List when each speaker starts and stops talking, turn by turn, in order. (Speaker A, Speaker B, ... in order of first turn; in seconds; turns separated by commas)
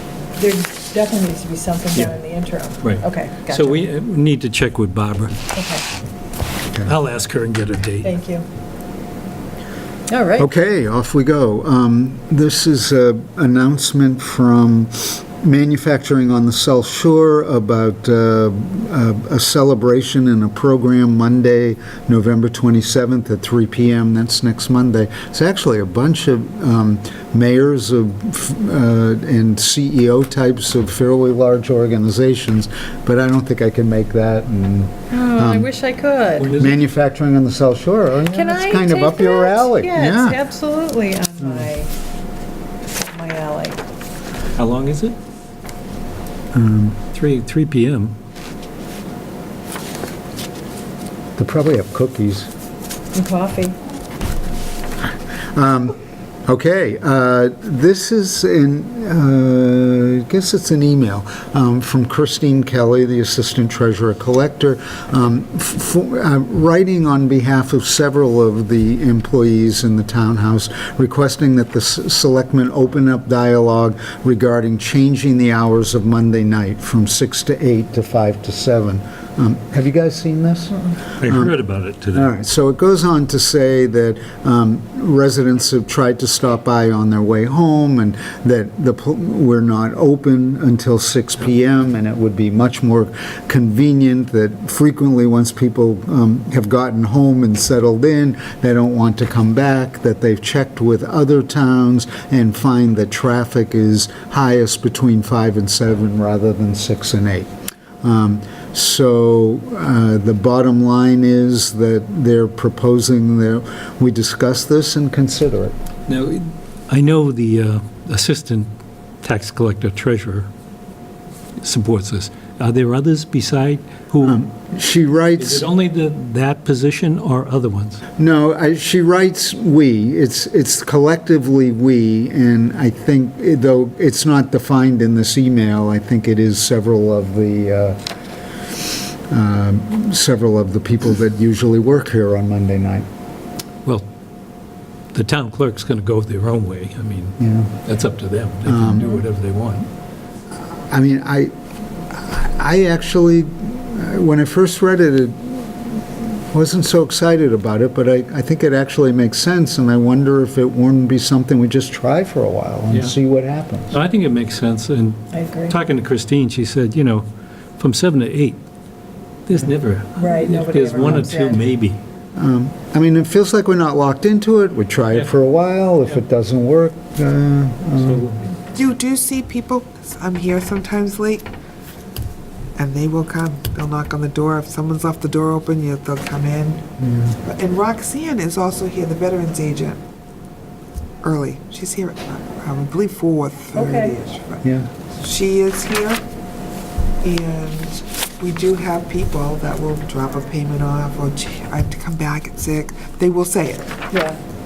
Speaker A: 0.3-3.8, Speaker B: 2.8-5.4, Speaker A: 5.5-5.8, Speaker B: 6.8-8.1, Speaker A: 8.0-8.4, Speaker A: 10.1-10.5, Speaker C: 10.4-35.7, Speaker A: 35.1-36.5, Speaker B: 36.4-36.8, Speaker C: 36.5-40.4, Speaker A: 38.2-41.9, Speaker C: 41.4-41.7, Speaker A: 43.0-43.8, Speaker B: 44.6-45.1, Speaker C: 46.5-47.0, Speaker B: 47.1-48.1, Speaker C: 51.4-52.5, Speaker A: 53.1-53.8, Speaker C: 55.5-81.5, Speaker B: 81.2-82.3, Speaker C: 82.1-107.5, Speaker C: 108.0-115.7, Speaker B: 116.1-118.7, Speaker B: 119.2-120.5, Speaker B: 121.6-124.4, Speaker C: 124.2-125.7, Speaker B: 125.4-128.0, Speaker C: 128.2-138.0, Speaker C: 138.7-143.1, Speaker B: 145.1-149.9, Speaker C: 147.4-147.7, Speaker C: 148.6-149.2, Speaker C: 150.6-151.5, Speaker C: 152.1-164.0, Speaker B: 163.9-167.2, Speaker A: 165.3-165.8, Speaker B: 167.8-168.6, Speaker B: 169.5-172.0, Speaker A: 170.2-171.6, Speaker C: 172.3-178.3, Speaker B: 178.0-178.5, Speaker D: 178.7-181.4, Speaker D: 182.8-186.8, Speaker C: 187.0-187.4, Speaker D: 187.4-190.0, Speaker D: 191.2-194.6, Speaker A: 193.7-194.1, Speaker C: 194.6-194.9, Speaker D: 195.2-196.2, Speaker D: 197.2-203.9, Speaker A: 204.1-204.4